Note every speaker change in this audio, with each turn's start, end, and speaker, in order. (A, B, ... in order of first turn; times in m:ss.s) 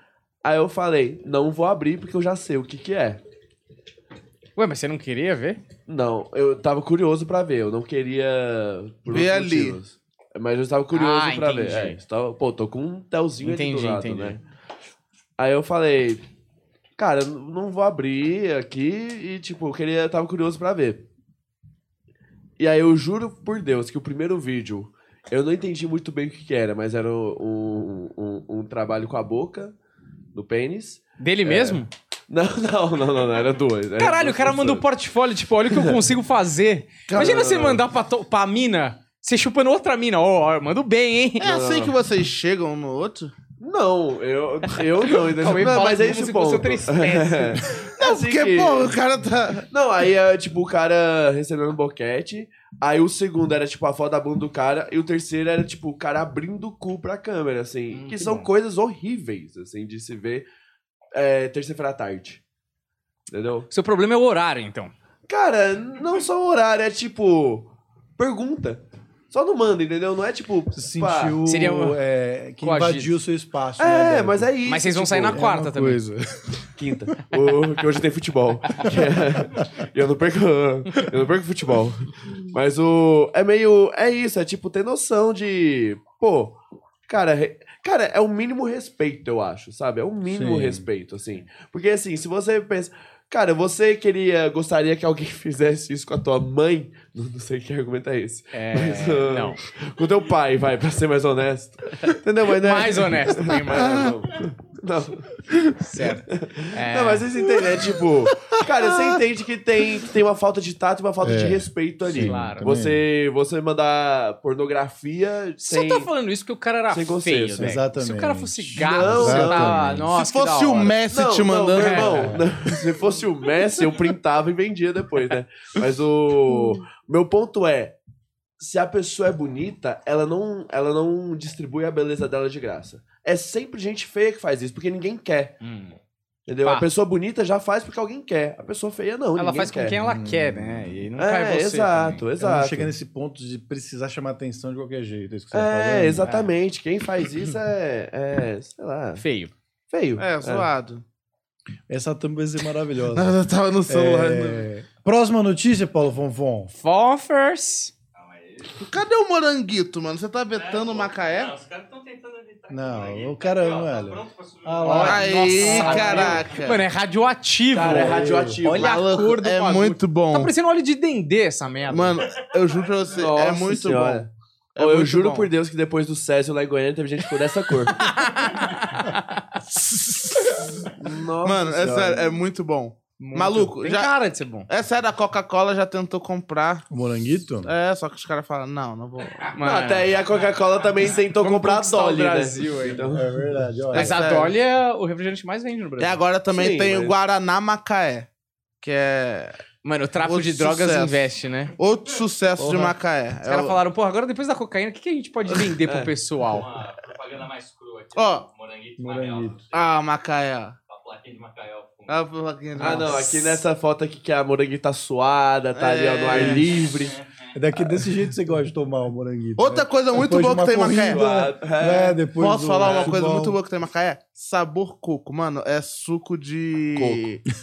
0:00.4-0:03.2 A
0:04.6-0:05.6 B
0:05.9-0:14.4 A
0:09.1-0:09.8 C
0:10.9-0:12.0 B
0:13.4-0:14.4 B
0:15.4-0:16.2 A
0:17.0-0:21.0 A
0:22.6-0:29.8 A
0:30.3-0:34.9 A
0:31.2-0:31.9 B
0:34.0-0:41.5 B
0:35.7-0:36.0 A
0:37.1-0:37.7 C
0:37.2-0:37.8 A
0:41.4-0:43.3 C
0:41.4-0:42.0 A
0:43.6-0:49.0 A
0:44.7-0:47.7 B
0:48.0-0:49.7 C
0:49.7-1:00.5 A
0:57.9-0:58.5 B
1:01.1-1:02.4 A
1:03.3-1:03.7 A
1:03.7-1:04.9 B
1:05.3-1:11.4 A
1:10.7-1:16.6 D
1:11.5-1:12.0 B
1:12.6-1:13.2 B
1:13.8-1:15.4 A
1:14.6-1:16.0 B
1:16.7-1:45.7 A
1:30.3-1:30.9 D
1:38.5-1:39.6 B
1:42.0-1:44.1 B
1:43.7-1:44.1 C
1:45.8-1:47.3 B
1:46.3-1:56.1 A
1:51.2-1:53.0 D
1:52.2-1:52.7 B
1:55.6-2:01.0 B
1:56.9-1:57.8 A
1:57.6-2:00.1 D
1:58.8-2:00.0 A
2:00.1-2:02.4 C
2:01.1-2:08.0 A
2:01.8-2:02.2 B
2:02.1-2:02.5 D
2:08.6-2:15.6 A
2:15.6-2:16.0 B
2:16.5-2:20.0 A
2:19.4-2:22.2 B
2:20.0-2:20.9 D
2:21.2-2:22.9 A
2:22.4-2:26.3 D
2:25.5-2:29.2 A
2:26.2-2:26.5 B
2:29.2-2:29.5 B
2:29.9-2:30.7 A
2:30.2-2:31.0 C
2:31.9-2:33.4 D
2:33.1-2:34.6 C
2:33.9-2:36.7 D
2:36.7-2:37.9 B
2:38.2-2:38.8 E
2:38.8-2:41.6 C
2:40.5-2:46.7 E
2:42.7-2:46.2 D
2:44.8-2:52.2 B
2:45.0-2:46.8 C
2:45.6-2:46.3 A
2:47.7-2:49.0 A
2:47.9-2:48.6 D
2:48.7-2:50.5 C
2:51.9-2:55.5 C
2:52.3-2:53.3 E
2:53.1-2:58.1 A
2:57.9-2:59.6 B
2:59.7-3:00.6 C
3:01.0-3:02.4 A
3:01.4-3:04.1 C
3:03.2-3:04.7 B
3:04.7-3:06.9 C
3:06.9-3:07.7 D
3:07.6-3:09.4 C
3:09.5-3:10.1 B
3:09.6-3:13.5 A
3:10.2-3:11.2 E
3:11.4-3:13.2 B
3:13.1-3:14.2 D
3:13.9-3:14.5 C
3:13.9-3:16.2 B
3:16.0-3:18.3 C
3:16.5-3:17.2 A
3:18.8-3:19.6 C
3:19.8-3:21.7 B
3:20.2-3:21.2 C
3:21.8-3:23.8 C
3:22.6-3:23.0 D
3:23.4-3:26.7 B
3:25.8-3:26.1 A
3:26.5-3:29.7 E
3:28.2-3:28.5 C
3:29.0-3:29.6 D
3:29.7-3:30.8 C
3:30.9-3:32.2 E
3:32.1-3:33.6 C
3:32.8-3:37.2 A
3:35.8-3:36.7 C
3:36.3-3:36.6 D
3:36.8-3:37.5 E
3:37.5-3:43.6 D
3:37.8-3:38.1 A
3:39.6-3:41.2 C
3:41.1-3:42.2 A
3:42.4-3:47.4 C
3:42.8-3:43.1 A
3:47.0-3:47.3 A